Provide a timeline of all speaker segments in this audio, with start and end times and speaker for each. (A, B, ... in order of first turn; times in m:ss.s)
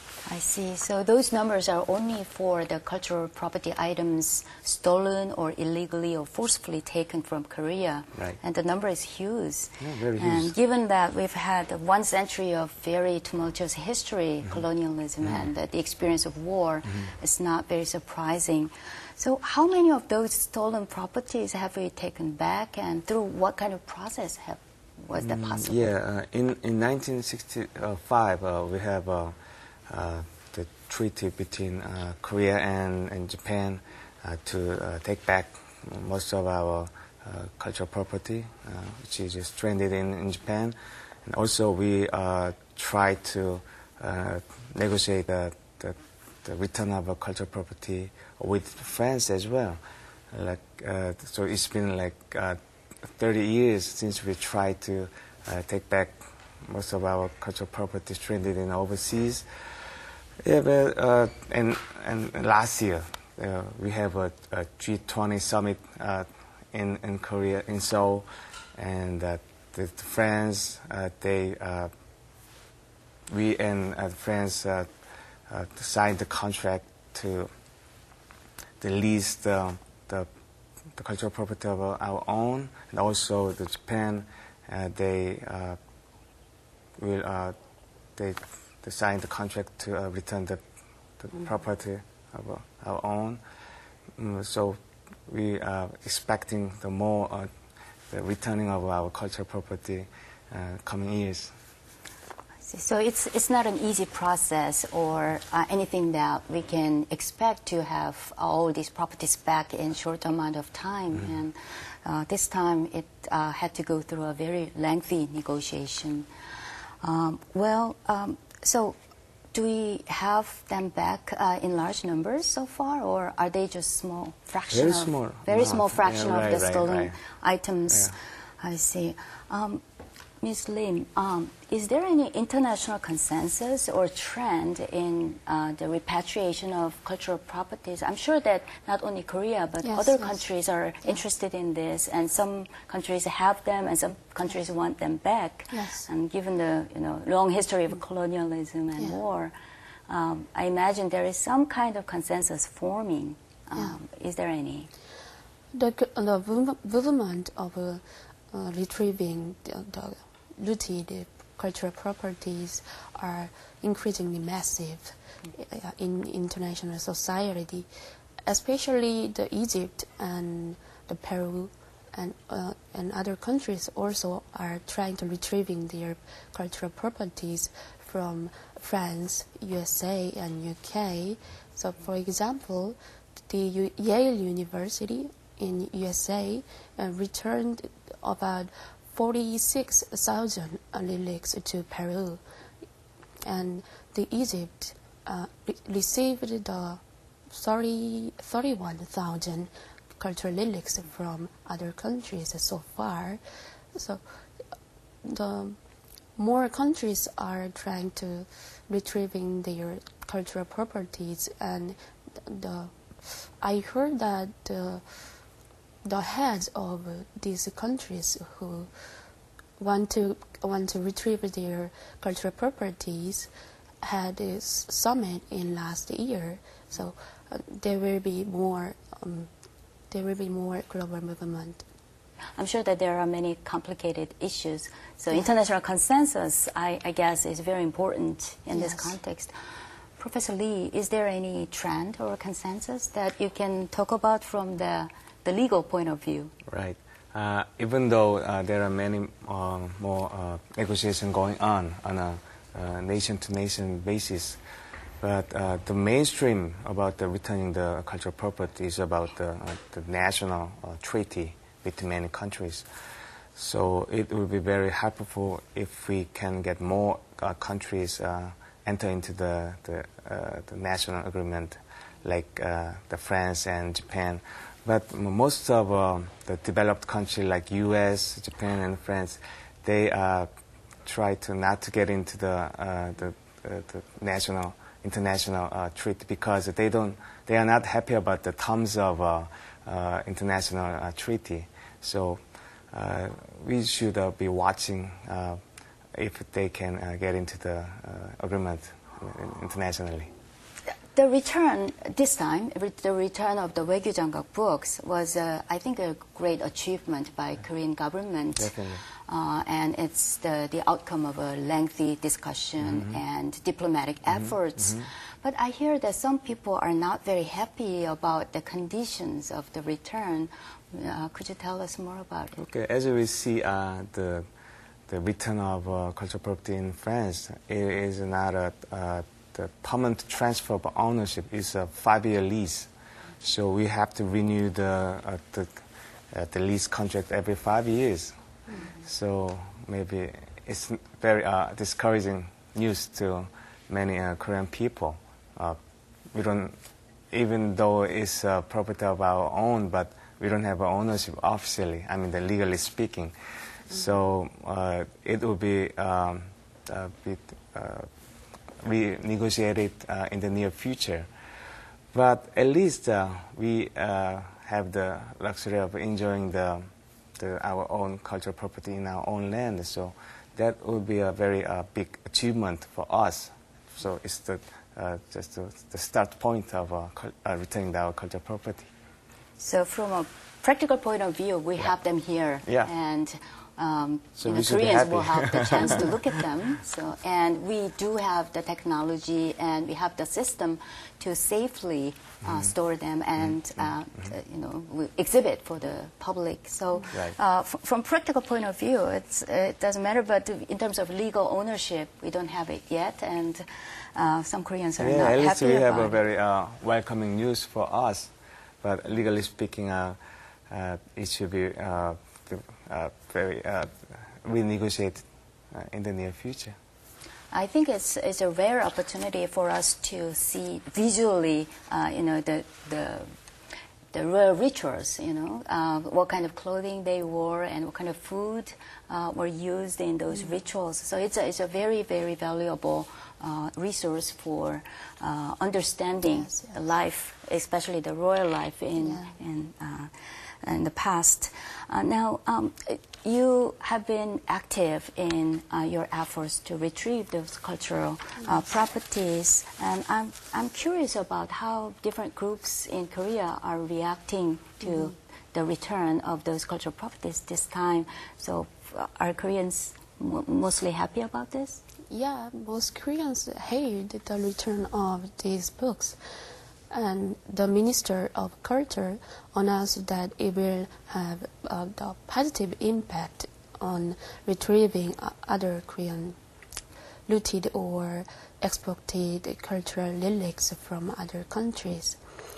0:00.2-0:25.9 A
0:09.8-0:10.5 B
0:25.2-0:29.4 B
0:29.9-0:49.8 B
0:50.3-0:59.4 B
1:00.4-1:11.9 B
1:13.3-1:14.9 B
1:15.5-1:17.5 B
1:18.8-1:20.3 B
1:20.9-1:25.8 B
1:27.0-1:27.6 B
1:28.2-1:30.6 B
1:31.2-1:33.4 B
1:34.2-1:37.5 B
1:38.1-1:41.5 B
1:42.7-1:56.3 A
1:57.0-1:59.0 A
1:59.5-2:09.8 A
2:04.7-2:07.2 B
2:10.4-2:29.5 A
2:19.8-2:20.4 C
2:25.7-2:26.0 C
2:30.1-2:34.9 A
2:35.7-2:47.9 C
2:48.4-3:03.0 C
3:03.5-3:12.4 C
3:13.4-3:23.4 C
3:23.9-3:24.2 C
3:25.2-3:25.8 C
3:26.4-3:35.0 C
3:36.0-3:38.9 C
3:39.8-3:43.5 C
3:44.0-3:49.5 C
3:50.1-3:51.8 C
3:52.6-3:59.5 A
3:58.7-3:59.1 C
4:00.2-4:06.5 A
4:06.7-4:14.6 B
4:15.2-4:22.9 B
4:23.6-4:40.5 B
4:41.0-4:55.6 B
4:56.1-5:00.3 B
5:01.1-5:22.6 A
5:08.6-5:09.0 B
5:12.8-5:13.2 B
5:14.3-5:15.1 B
5:22.6-5:24.5 B
5:25.1-5:32.9 B
5:33.4-5:38.3 B
5:39.0-5:45.8 B
5:46.3-5:46.8 B
5:47.3-5:53.3 B
5:53.9-5:58.1 B
5:58.8-6:01.3 B
6:02.1-6:18.9 B
6:19.6-6:46.2 A
6:24.4-6:26.2 B
6:32.4-6:32.7 B
6:37.1-6:37.4 B
6:45.0-6:48.3 B
6:48.8-6:50.2 B
6:50.7-6:56.8 B
6:57.5-7:03.3 A
7:04.1-7:41.8 A
7:16.3-7:16.7 C
7:19.0-7:19.3 C
7:42.1-7:46.2 C
7:46.9-7:56.4 C
7:57.3-8:02.2 C